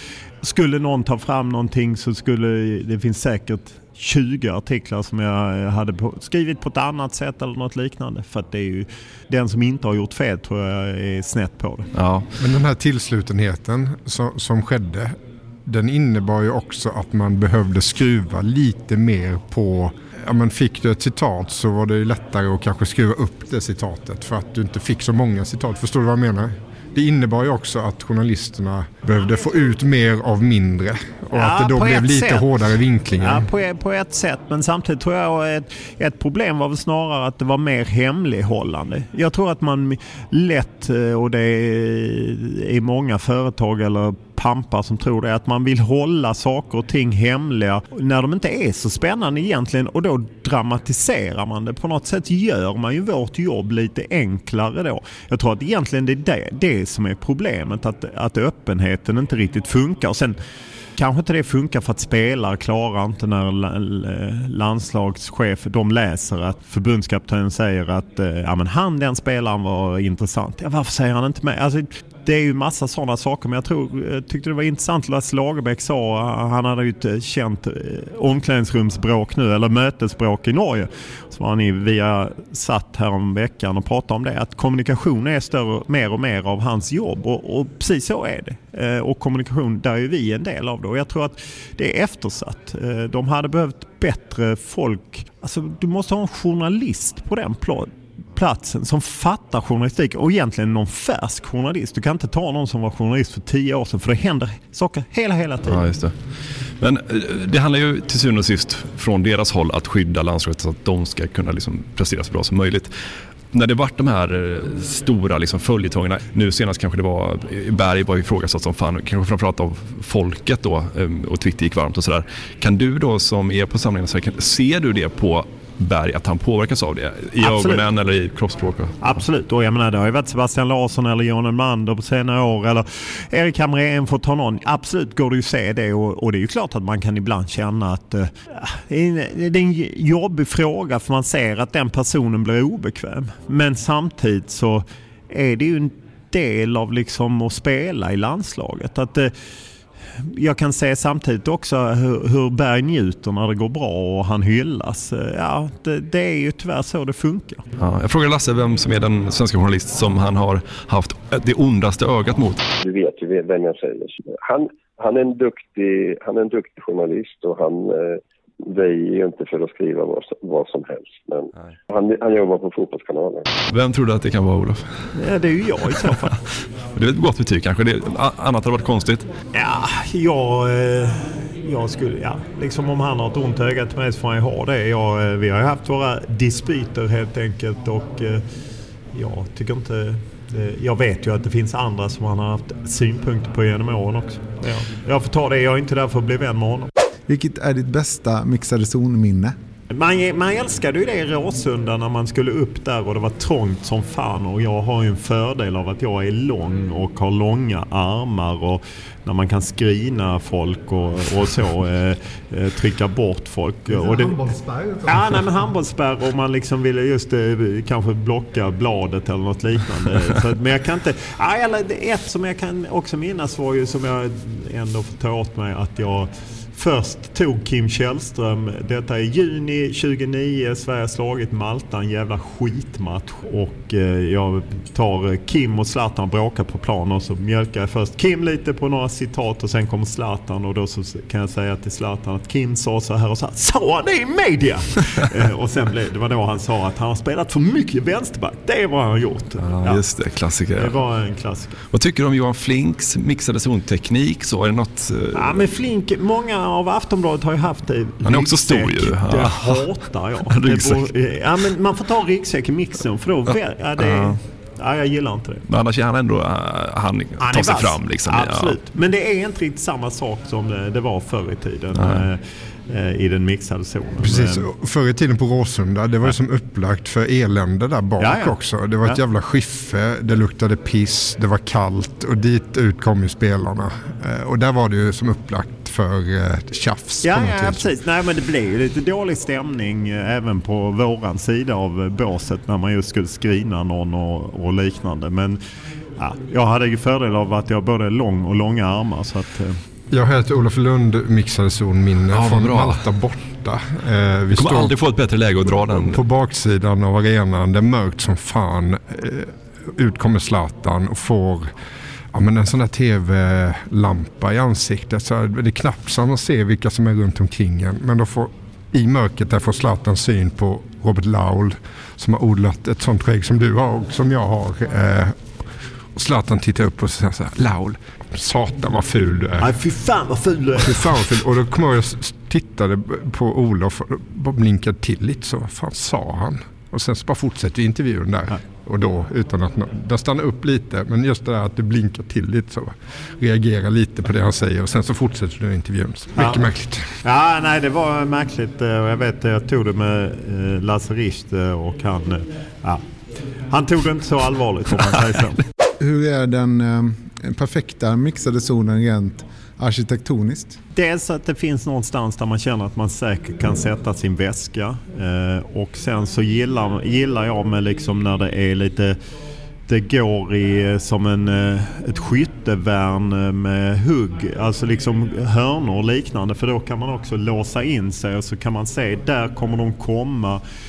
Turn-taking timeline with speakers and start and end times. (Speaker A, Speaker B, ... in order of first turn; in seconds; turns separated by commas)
Speaker A: 0.4-11.9, Speaker B: 11.9-12.3, Speaker C: 12.4-33.4, Speaker A: 31.3-32.5, Speaker A: 33.1-60.4, Speaker A: 61.0-105.8, Speaker B: 105.6-112.9, Speaker B: 113.5-129.0, Speaker A: 127.4-127.8, Speaker A: 129.0-149.3, Speaker A: 150.2-157.6, Speaker B: 157.8-162.6, Speaker D: 162.8-173.4, Speaker B: 173.7-175.1, Speaker A: 175.1-176.3, Speaker B: 175.9-179.3, Speaker A: 179.5-188.4, Speaker A: 189.1-196.9, Speaker E: 197.3-199.5, Speaker A: 199.9-214.5, Speaker E: 213.9-215.4, Speaker A: 215.1-250.0, Speaker B: 249.6-251.0, Speaker A: 250.8-251.8, Speaker B: 251.9-255.7, Speaker A: 255.3-265.6, Speaker B: 258.2-259.9, Speaker B: 260.4-261.1, Speaker B: 263.4-264.4, Speaker B: 265.7-268.8, Speaker A: 267.4-274.6, Speaker B: 271.9-272.3, Speaker C: 274.2-287.9, Speaker A: 278.2-279.2, Speaker A: 287.2-295.6, Speaker A: 296.2-299.8, Speaker C: 300.1-305.0, Speaker B: 302.3-303.0, Speaker B: 304.5-306.2, Speaker C: 305.7-311.7, Speaker C: 312.3-329.7, Speaker A: 329.6-331.2, Speaker C: 330.9-347.1, Speaker A: 346.3-346.7, Speaker A: 347.2-353.1, Speaker A: 353.7-355.6, Speaker E: 356.0-360.8, Speaker A: 360.9-369.1, Speaker A: 369.9-380.6